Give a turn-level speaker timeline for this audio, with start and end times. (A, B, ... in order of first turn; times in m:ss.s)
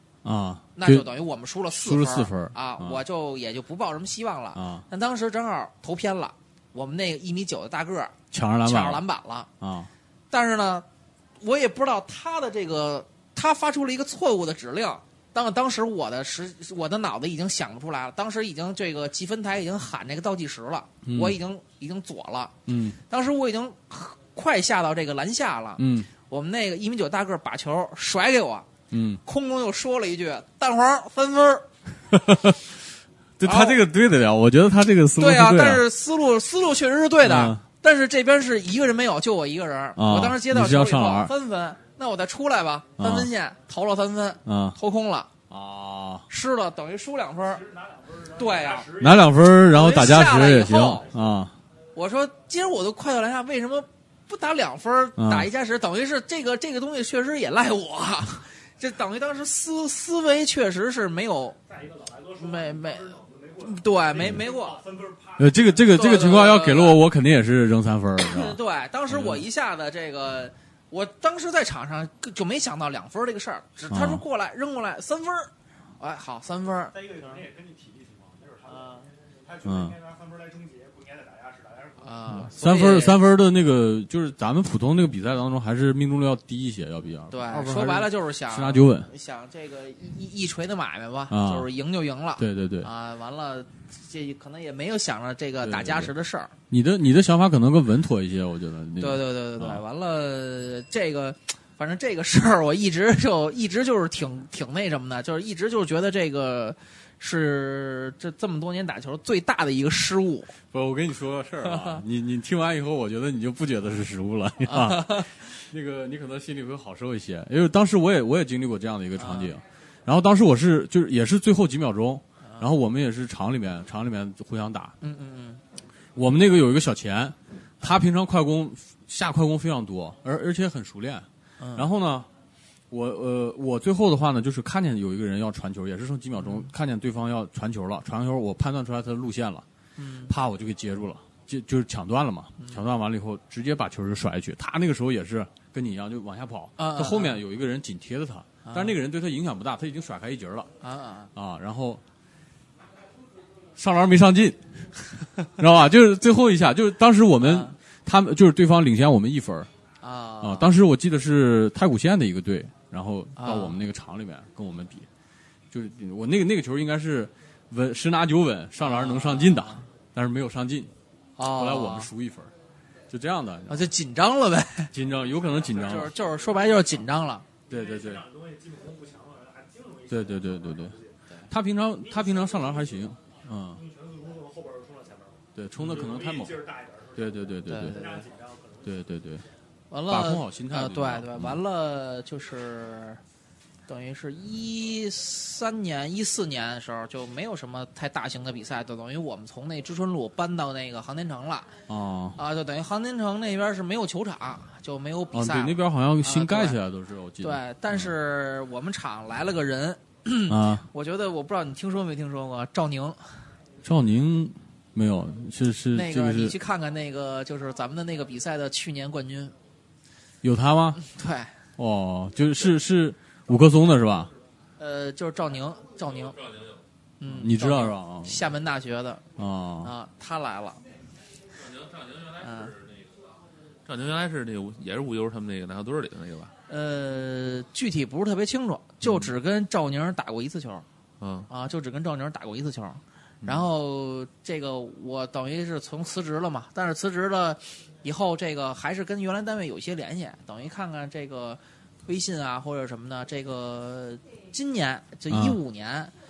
0:00.2-0:01.1 A
0:00.8-0:09.5 B
0:01.7-0:03.0 A
0:04.5-0:04.8 A
0:08.3-0:09.0 A
0:09.6-0:09.9 A
0:10.3-0:10.8 B
0:11.4-0:22.6 B
0:21.0-0:21.4 A
0:22.7-0:23.0 A
0:23.1-0:28.7 B
0:25.8-0:26.1 A
0:28.9-0:29.2 A
0:29.2-0:31.7 B
0:32.1-0:32.6 A
0:33.4-0:35.8 A
0:33.4-0:33.8 B
0:35.2-0:45.3 B
0:37.2-0:37.6 A
0:40.0-0:41.3 A
0:43.0-0:43.3 A
0:44.4-0:44.8 A
0:45.5-0:46.3 A
0:46.3-0:49.0 B
0:48.9-0:51.5 A
0:49.7-0:51.1 B
0:51.9-1:01.6 B
0:55.2-0:55.5 A
1:01.9-1:02.3 C
1:02.3-1:04.8 B
1:04.9-1:05.3 C
1:05.4-1:08.6 A
1:05.9-1:07.0 B
1:08.2-1:17.3 B
1:09.1-1:09.4 A
1:13.9-1:14.2 A
1:17.1-1:18.7 C
1:18.7-1:19.0 B
1:19.5-1:22.0 C
1:19.6-1:20.0 A
1:22.0-1:23.2 B
1:22.3-1:29.1 A
1:27.3-1:36.5 B
1:31.3-1:31.7 A
1:32.4-1:32.9 A
1:35.6-1:36.1 A
1:36.7-1:39.8 A
1:39.0-1:50.5 B
1:50.7-2:04.9 A
1:51.6-1:52.0 B
1:54.6-1:55.3 B
1:59.2-1:59.6 B
2:05.0-2:05.6 B
2:06.2-2:12.3 A
2:11.6-2:11.9 B
2:12.9-2:19.6 A
2:16.4-2:16.7 B
2:20.0-2:20.3 B
2:20.3-2:30.7 A
2:26.8-2:27.4 B
2:28.6-2:29.0 B
2:30.8-2:31.3 B
2:31.3-2:32.0 A
2:33.8-2:39.7 A
2:37.4-2:37.8 B
2:40.0-2:40.7 B
2:40.4-2:45.1 A
2:43.4-2:43.8 B
2:45.7-2:50.9 A
2:48.8-2:49.8 B
2:51.4-2:52.1 B
2:51.5-2:52.5 A
2:53.1-2:53.9 A
2:53.7-2:54.9 B
2:54.9-2:56.1 A
2:55.8-2:57.5 B
2:57.7-2:58.3 A
2:58.4-3:00.0 C
3:00.1-3:01.0 A
3:01.5-3:03.8 A
3:04.0-3:05.3 C
3:05.5-3:08.1 A
3:06.7-3:07.0 C
3:07.7-3:08.2 B
3:08.2-3:08.7 C
3:08.8-3:09.4 A
3:09.9-3:13.2 B
3:10.1-3:11.6 A
3:13.9-3:21.7 B
3:21.9-3:22.4 A
3:22.4-3:26.8 B
3:25.3-3:28.1 A
3:27.4-3:33.2 B
3:30.5-3:30.8 A
3:33.8-3:36.5 A
3:35.9-3:39.5 B
3:40.4-3:41.0 A
3:41.0-3:41.5 B
3:41.8-3:44.3 A
3:44.8-3:46.4 B
3:46.2-3:46.8 D
3:47.2-3:49.2 B
3:47.3-3:48.4 A
3:49.4-3:49.9 A
3:49.8-3:50.8 B
3:51.5-3:53.2 D
3:52.4-3:52.7 B
3:53.8-3:56.5 D
3:56.7-4:00.8 B
4:01.2-4:01.5 D
4:01.5-4:16.1 B
4:15.3-4:15.6 A